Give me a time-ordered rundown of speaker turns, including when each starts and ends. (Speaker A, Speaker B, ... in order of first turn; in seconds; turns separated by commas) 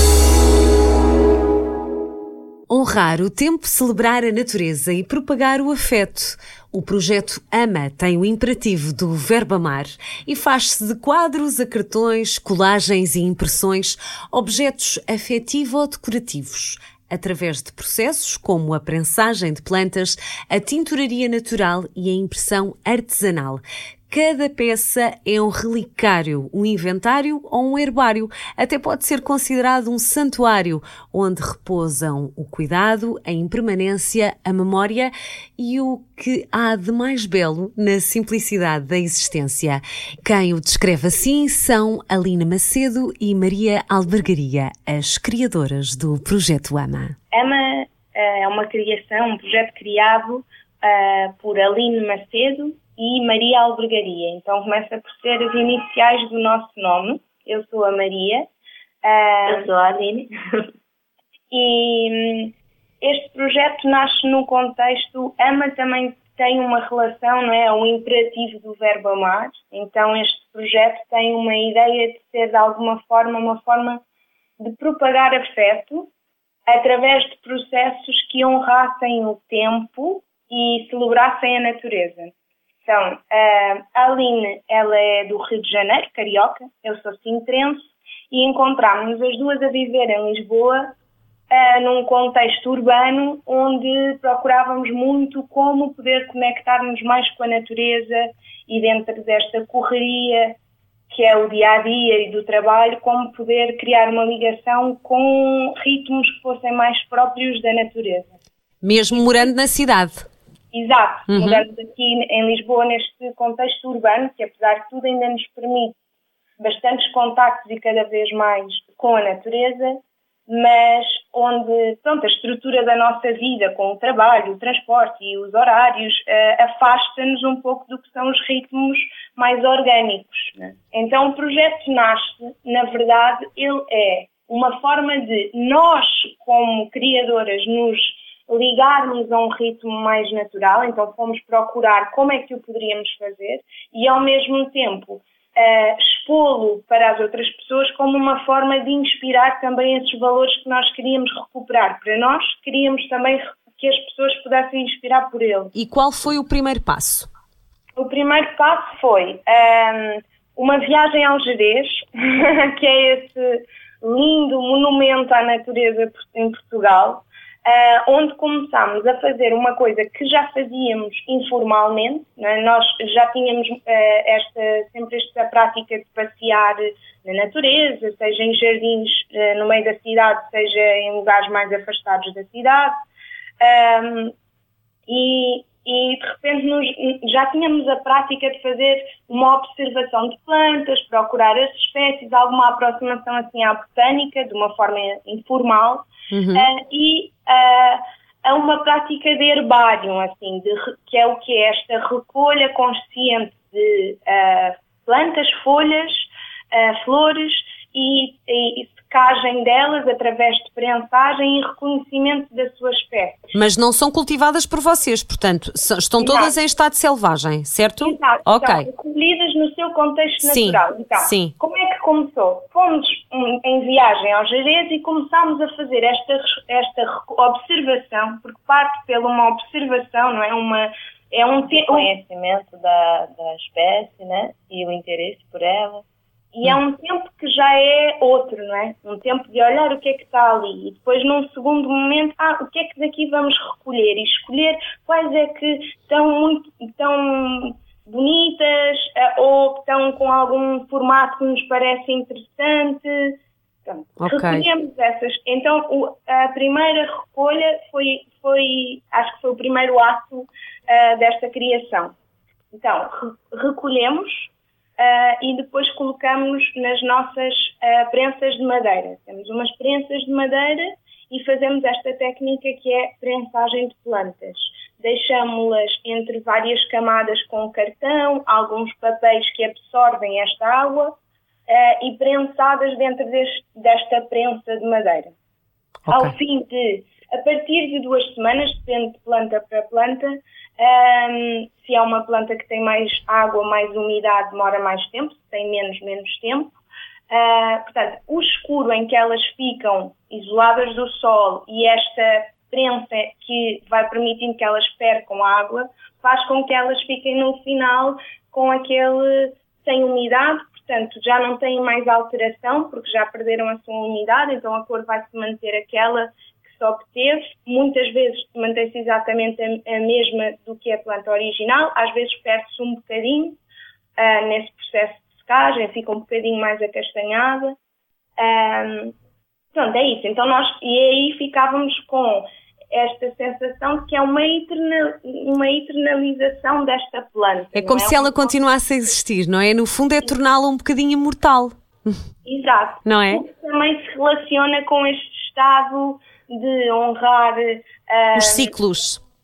Speaker A: 2.7-47.1, Speaker B: 47.3-58.5, Speaker B: 59.0-59.7, Speaker C: 59.5-60.3, Speaker B: 61.5-74.0, Speaker B: 74.6-76.1, Speaker B: 76.7-82.3, Speaker B: 82.8-90.9, Speaker B: 91.5-100.6, Speaker B: 101.1-108.4, Speaker A: 108.8-110.2, Speaker B: 109.1-109.5, Speaker B: 110.7-116.0, Speaker A: 111.3-111.6, Speaker B: 116.6-155.7, Speaker A: 155.7-157.3, Speaker B: 157.9-182.9, Speaker B: 183.6-184.3, Speaker B: 185.1-213.5, Speaker A: 196.3-196.7, Speaker A: 213.5-218.9, Speaker B: 216.2-216.5, Speaker B: 218.0-232.1, Speaker A: 220.4-221.5, Speaker C: 231.7-236.0, Speaker B: 236.5-262.1, Speaker A: 254.2-254.6, Speaker B: 262.7-281.1, Speaker B: 281.7-285.3, Speaker A: 286.1-286.3, Speaker B: 286.1-296.7, Speaker B: 297.3-323.6, Speaker B: 324.2-327.8, Speaker B: 328.4-329.1, Speaker B: 329.7-338.6, Speaker A: 337.7-342.1, Speaker B: 342.4-348.7, Speaker A: 343.0-343.4, Speaker A: 348.3-349.2